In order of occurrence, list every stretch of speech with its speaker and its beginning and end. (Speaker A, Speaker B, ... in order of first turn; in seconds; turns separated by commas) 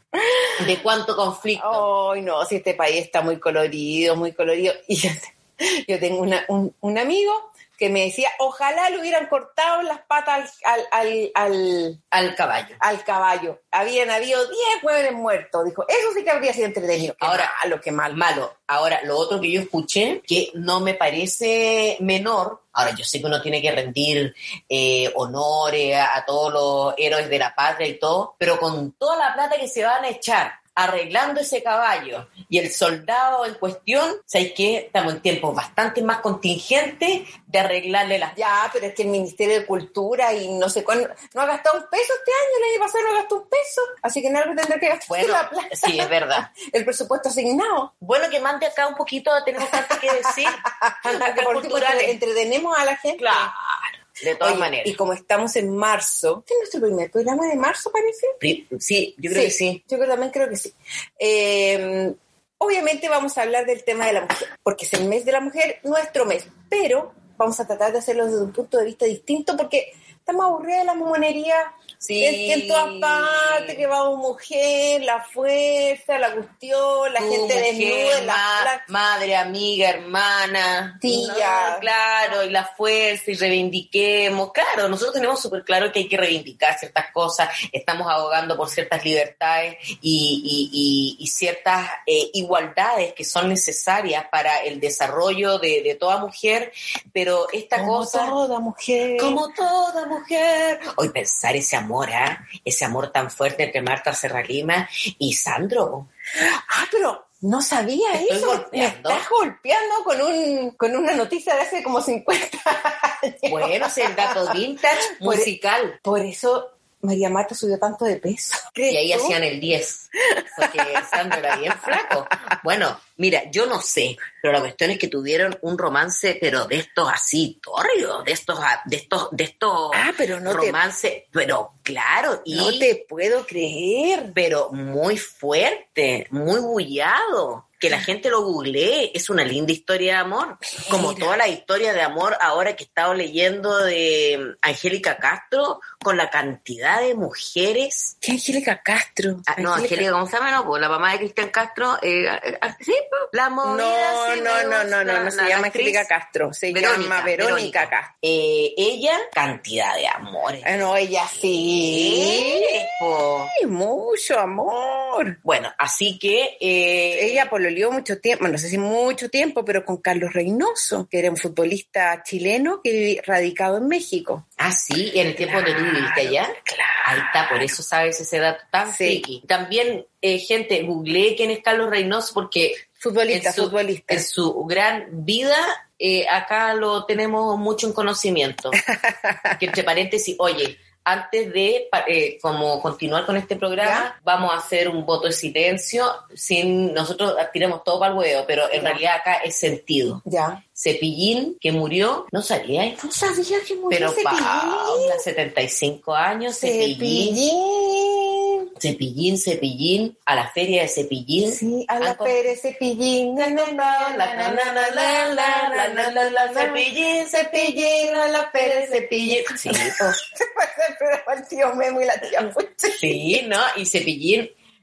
Speaker A: 0.1-0.8, Speaker B: 0.6-1.9, Speaker A: 1.6-12.0, Speaker B: 12.1-12.8, Speaker A: 12.8-18.2, Speaker B: 17.2-17.5, Speaker B: 18.1-38.4, Speaker A: 38.3-47.9, Speaker B: 45.1-46.5, Speaker B: 48.0-52.2, Speaker A: 49.6-53.5, Speaker B: 53.2-55.0, Speaker A: 54.4-58.4, Speaker B: 58.4-59.8, Speaker A: 59.3-78.8, Speaker B: 72.0-73.8, Speaker B: 77.2-98.4, Speaker A: 81.0-81.9, Speaker A: 97.7-99.4, Speaker B: 99.2-106.1, Speaker A: 106.3-114.6, Speaker B: 108.1-109.2, Speaker B: 113.5-116.0, Speaker A: 115.2-115.5, Speaker A: 116.0-119.4, Speaker B: 118.9-132.9, Speaker A: 120.3-122.5, Speaker A: 129.9-130.8, Speaker A: 132.5-134.3, Speaker B: 134.3-148.1, Speaker A: 140.8-141.4, Speaker A: 148.2-150.1, Speaker B: 149.5-156.1, Speaker A: 152.8-158.1, Speaker B: 156.7-163.5, Speaker A: 160.6-162.9, Speaker A: 163.5-165.4, Speaker B: 165.4-167.5, Speaker A: 167.1-174.4, Speaker B: 174.6-188.8, Speaker A: 175.4-177.7, Speaker A: 178.8-179.2, Speaker A: 183.0-184.2, Speaker A: 188.8-189.6, Speaker B: 189.5-200.2, Speaker A: 193.8-194.1, Speaker A: 198.7-199.0, Speaker A: 200.2-200.6, Speaker B: 200.8-203.0, Speaker A: 203.0-205.2, Speaker B: 203.9-207.4, Speaker A: 206.5-208.7, Speaker B: 208.8-212.4, Speaker A: 211.4-223.4, Speaker B: 213.4-220.2, Speaker B: 222.9-224.5